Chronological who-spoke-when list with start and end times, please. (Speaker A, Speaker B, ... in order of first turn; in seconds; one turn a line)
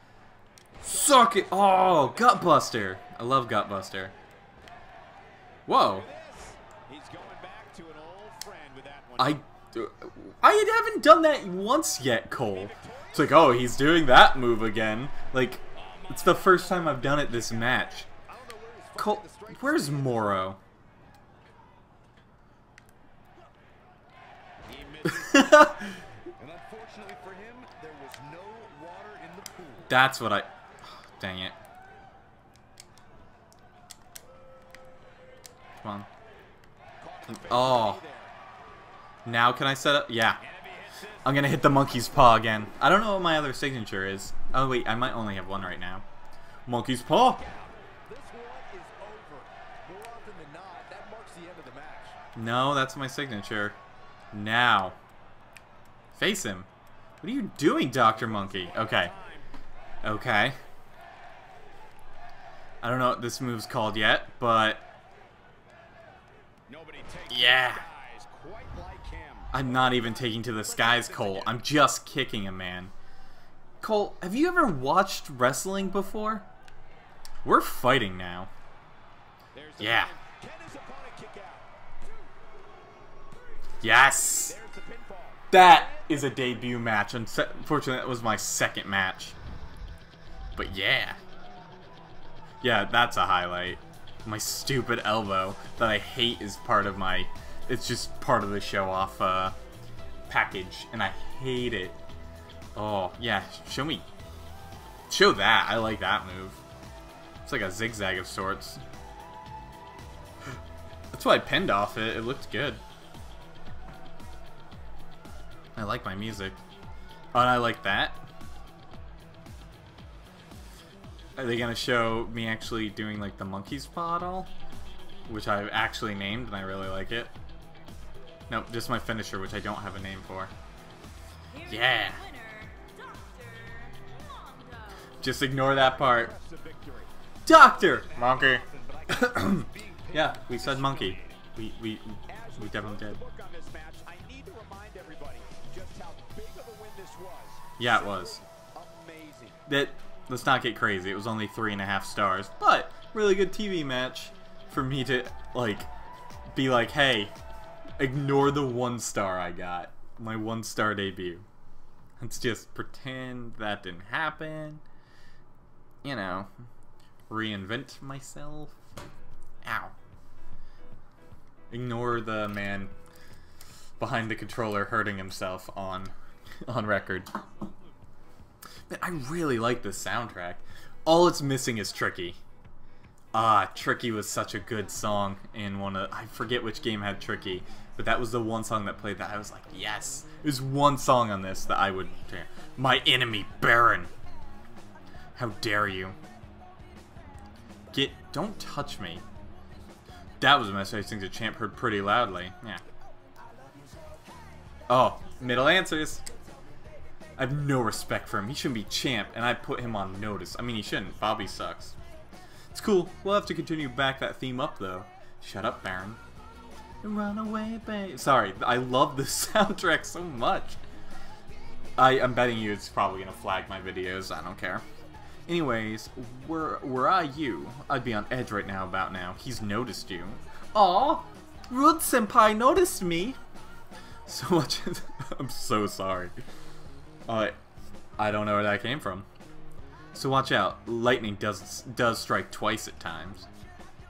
Speaker A: 0.8-4.1
Speaker B: 0.8-2.9
Speaker A: 5.7-6.0
Speaker B: 5.8-9.4
Speaker A: 9.2-18.1
Speaker B: 12.5-13.4
Speaker B: 15.7-20.5
Speaker A: 19.0-20.6
Speaker B: 24.6-30.0
Speaker A: 25.3-25.9
Speaker A: 29.9-30.5
Speaker A: 31.0-31.6
Speaker A: 35.8-36.1
Speaker B: 37.0-38.3
Speaker A: 37.3-38.0
Speaker A: 39.2-40.4
Speaker B: 40.4-41.3
Speaker A: 41.2-46.0
Speaker A: 46.6-47.4
Speaker B: 47.2-52.2
Speaker A: 52.3-53.8
Speaker A: 54.3-55.0
Speaker A: 56.1-56.7
Speaker A: 57.2-59.1
Speaker B: 58.0-59.5
Speaker A: 60.0-60.6
Speaker A: 62.8-64.8
Speaker B: 66.7-71.6
Speaker A: 67.3-67.9
Speaker A: 69.5-72.9
Speaker A: 73.8-76.5
Speaker A: 77.4-78.5
Speaker B: 79.5-81.7
Speaker A: 79.8-80.1
Speaker A: 83.8-84.6
Speaker B: 84.4-86.6
Speaker A: 85.5-89.4
Speaker A: 90.5-91.2
Speaker A: 92.6-99.5
Speaker A: 100.3-102.0
Speaker A: 102.8-104.0
Speaker A: 105.1-106.6
Speaker A: 107.4-108.8
Speaker A: 111.1-112.8
Speaker A: 115.8-116.6
Speaker A: 117.3-118.2
Speaker A: 121.4-124.5
Speaker A: 125.3-127.3
Speaker A: 128.5-130.5
Speaker C: 131.5-135.0
Speaker A: 131.6-132.2
Speaker A: 135.2-136.3
Speaker B: 135.6-141.4
Speaker A: 137.4-143.2
Speaker B: 142.3-149.6
Speaker A: 147.8-148.4
Speaker A: 149.7-155.9
Speaker A: 156.5-157.3
Speaker A: 158.0-161.4
Speaker A: 162.2-164.8
Speaker A: 166.0-166.5
Speaker A: 167.3-168.8
Speaker A: 169.6-169.9
Speaker A: 171.7-172.9
Speaker A: 174.0-176.1
Speaker A: 176.7-177.3
Speaker A: 178.9-182.4
Speaker A: 183.3-194.1
Speaker A: 195.3-196.2
Speaker A: 197.9-199.2
Speaker A: 200.4-202.8
Speaker A: 204.9-206.2
Speaker A: 207.4-211.9
Speaker A: 212.7-216.2
Speaker A: 217.0-220.8
Speaker A: 222.0-224.8
Speaker A: 225.5-233.4
Speaker A: 234.2-236.3
Speaker A: 237.3-237.6
Speaker A: 238.2-239.2
Speaker A: 240.1-243.5